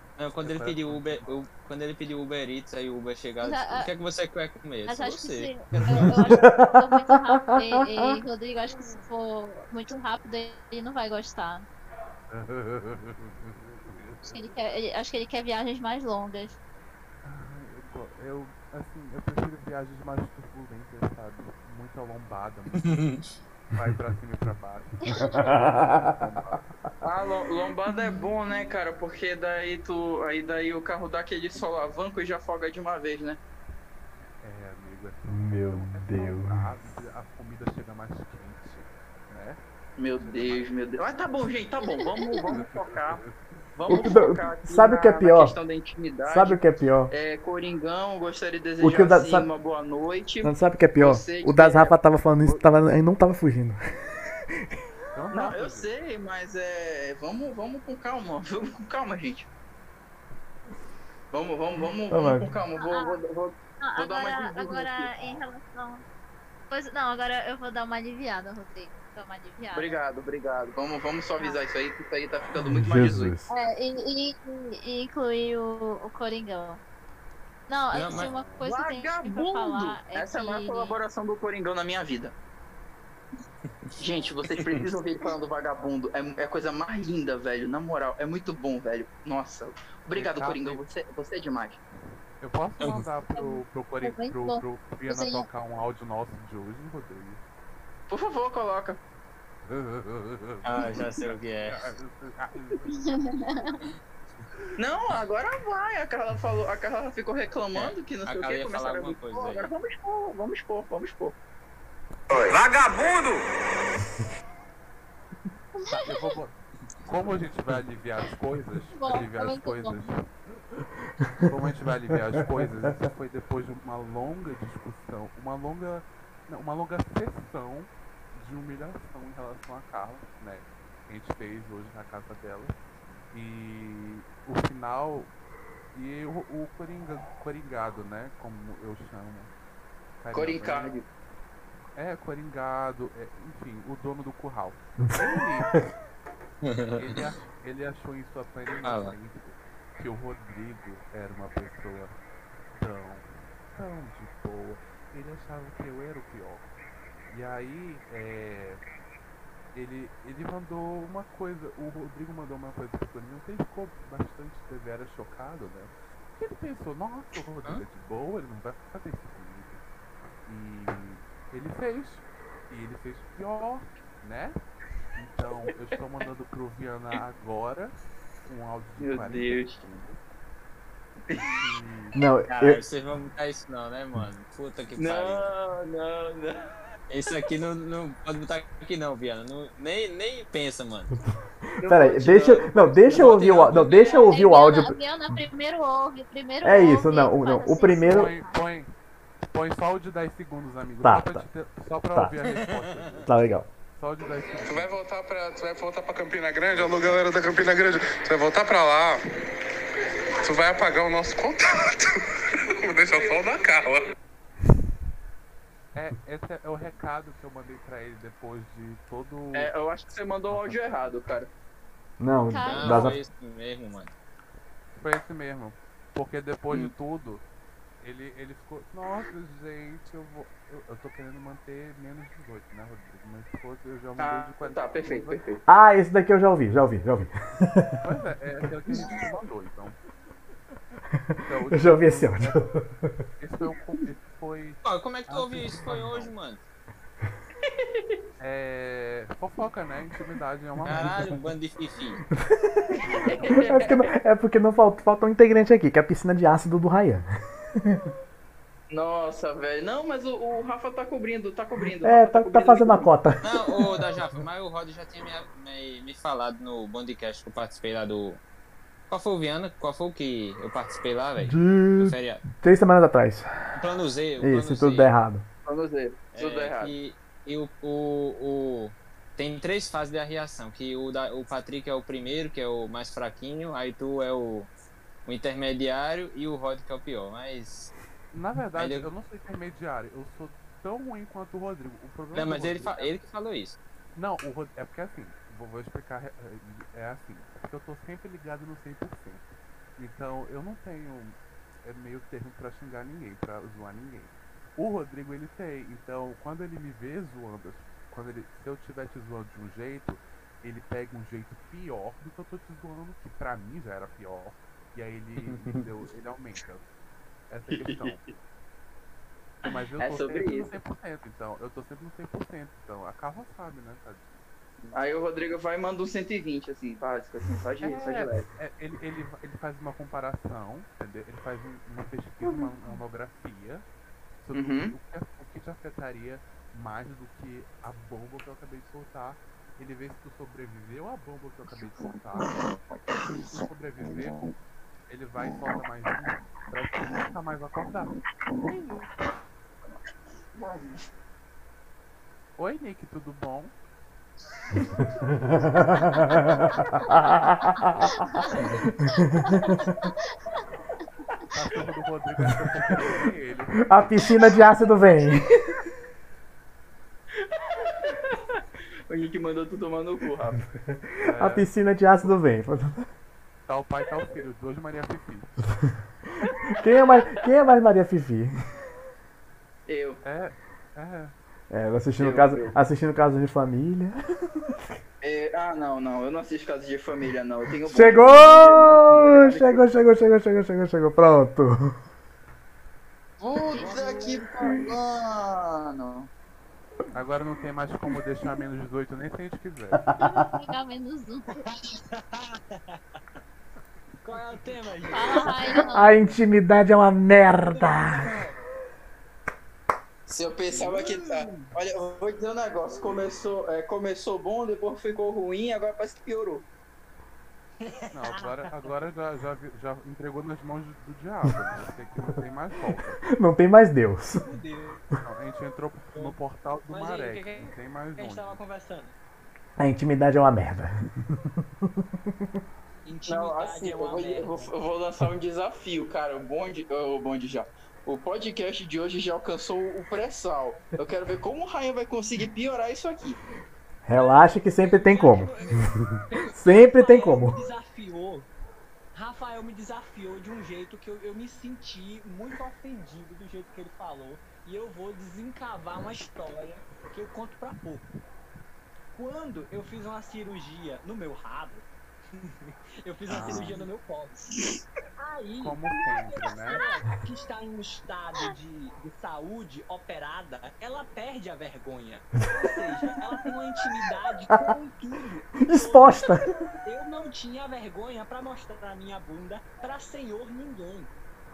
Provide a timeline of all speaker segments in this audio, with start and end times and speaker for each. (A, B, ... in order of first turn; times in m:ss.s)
0:00.2-0:06.2 A
0:00.4-0:01.4 B
0:03.4-0:03.9 C
0:04.8-0:11.7 C
0:05.9-0:07.6 D
0:12.3-0:14.4 B
0:14.2-0:16.6 C
0:17.2-0:23.0 B
0:23.7-0:26.7 B
0:25.1-0:26.1 D
0:27.0-0:33.4 E
0:34.4-0:39.6 B
0:35.3-0:36.6 D
0:40.0-0:43.2 E
0:40.2-0:40.6 B
0:42.0-0:42.4 C
0:42.5-0:44.2 B
0:43.8-0:51.9 E
0:43.9-0:45.6 D
0:46.2-0:47.1 D
0:48.8-0:49.5 D
0:50.4-0:53.8 D
0:52.4-0:52.7 B
0:55.1-0:55.9 B
0:55.3-0:59.5 E
1:01.3-1:05.4 E
1:02.1-1:02.5 D
1:02.8-1:03.2 C
1:03.8-1:06.0 C
1:06.7-1:10.0 C
1:09.7-1:13.3 E
1:12.7-1:13.5 D
1:13.5-1:16.8 C
1:17.7-1:21.0 C
1:17.9-1:18.3 A
1:18.1-1:18.6 B
1:18.6-1:22.3 E
1:24.0-1:31.8 E
1:24.5-1:24.8 A
1:30.1-1:30.8 B
1:32.4-1:37.4 B
1:33.3-1:35.4 C
1:38.1-1:39.0 E
1:39.6-1:43.6 B
1:40.6-1:41.8 A
1:43.0-1:43.8 C
1:44.8-1:51.4 E
1:47.7-1:49.7 A
1:52.3-1:53.4 F
1:55.8-1:56.2 C
1:55.9-2:00.3 B
1:59.0-2:00.0 C
2:01.4-2:12.7 B
2:13.3-2:15.3 B
2:15.9-2:19.5 B
2:20.2-2:20.9 B
2:20.3-2:21.0 E
2:22.0-2:25.7 B
2:26.6-2:27.2 A
2:26.9-2:32.1 B
2:28.7-2:29.2 A
2:32.7-2:36.7 B
2:37.3-2:38.8 B
2:39.7-2:49.8 B
2:50.4-2:54.6 B
2:55.2-2:57.9 B
2:58.4-3:00.3 B
2:59.0-2:59.8 E
3:01.3-3:01.6 E
3:01.5-3:02.2 B
3:02.1-3:02.8 D
3:02.5-3:05.5 A
3:05.0-3:06.7 E
3:07.1-3:11.2 A
3:11.8-3:14.2 E
3:11.8-3:15.0 D
3:13.1-3:14.4 A
3:13.9-3:18.5 C
3:16.6-3:18.3 D
3:18.0-3:18.9 B
3:19.4-3:23.3 B
3:21.0-3:21.4 D
3:22.4-3:23.2 A
3:23.2-3:23.7 D
3:23.9-3:24.9 B
3:24.6-3:29.2 F
3:30.4-3:32.1 F
3:32.8-3:34.0 F
3:35.9-3:39.7 B
3:39.5-3:41.5 E
3:40.5-3:41.1 B
3:42.2-3:43.2 D
3:42.5-3:43.2 C
3:42.6-3:44.1 A
3:44.9-3:47.4 B
3:48.0-3:55.4 B
3:54.2-3:55.6 E
3:55.7-3:58.0 D
3:58.0-4:00.0 B
3:58.9-3:59.4 E
4:01.4-4:02.6 B
4:01.7-4:03.1 D
4:03.4-4:06.3 B
4:04.8-4:06.6 A
4:07.8-4:08.2 E
4:08.4-4:11.5 B
4:10.8-4:12.2 A
4:13.0-4:13.8 B
4:13.2-4:14.1 E
4:13.5-4:17.3 D
4:18.9-4:23.1 E
4:22.0-4:23.6 D
4:23.4-4:28.4 A
4:29.1-4:32.4 A
4:31.4-4:33.8 D
4:33.7-4:35.1 A
4:34.4-4:35.4 D
4:35.6-4:36.9 E
4:36.3-4:44.7 A
4:45.2-4:47.9 A
4:48.3-4:53.1 B
4:48.7-4:49.1 A
4:52.3-4:53.8 A
4:54.1-4:59.4 B
5:00.0-5:16.8 B
5:15.4-5:15.8 A
5:17.5-5:18.2 B
5:17.7-5:18.2 E
5:19.6-5:24.4 B
5:19.7-5:20.7 E
5:24.9-5:28.4 E
5:27.8-5:33.8 B
5:34.4-5:42.6 B
5:34.5-5:34.9 E
5:42.4-5:42.7 E
5:43.5-5:44.5 B
5:45.1-5:49.1 B
5:50.6-5:50.9 E
5:52.6-5:53.7 B
5:55.2-5:55.5 B
5:55.4-5:58.0 D
5:59.3-5:59.7 D
5:59.4-6:00.1 C
6:01.5-6:04.6 B
6:03.9-6:05.5 D
6:07.3-6:10.6 E
6:11.2-6:11.7 B
6:11.3-6:13.1 D
6:13.6-6:15.8 B
6:16.7-6:18.5 D
6:16.9-6:17.4 E
6:19.9-6:20.2 E
6:20.2-6:21.3 B
6:21.7-6:24.1 D
6:22.2-6:22.7 E
6:25.2-6:29.8 E
6:27.9-6:31.9 D
6:33.4-6:36.3 E
6:33.7-6:34.8 G
6:37.1-6:40.1 B
6:40.2-6:41.6 C
6:41.6-6:43.2 G
6:44.2-6:46.4 G
6:45.1-6:46.2 C
6:45.4-6:45.7 E
6:45.9-6:48.3 D
6:47.2-6:48.6 G
6:50.3-6:56.6 E
6:50.7-6:51.7 G
6:57.8-6:58.7 G
6:58.1-7:03.2 B
7:03.4-7:04.4 D
7:04.4-7:05.0 G
7:05.2-7:08.6 B
7:06.9-7:09.1 G
7:09.8-7:10.9 D
7:13.0-7:14.7 G
7:13.3-7:23.4 E
7:24.0-7:25.6 D
7:24.1-7:28.5 G
7:26.5-7:27.6 D
7:29.1-7:38.0 G
7:39.1-7:44.4 G
7:43.3-7:43.8 B
7:45.2-8:01.1 G
7:45.6-7:46.8 B
7:55.6-7:56.4 D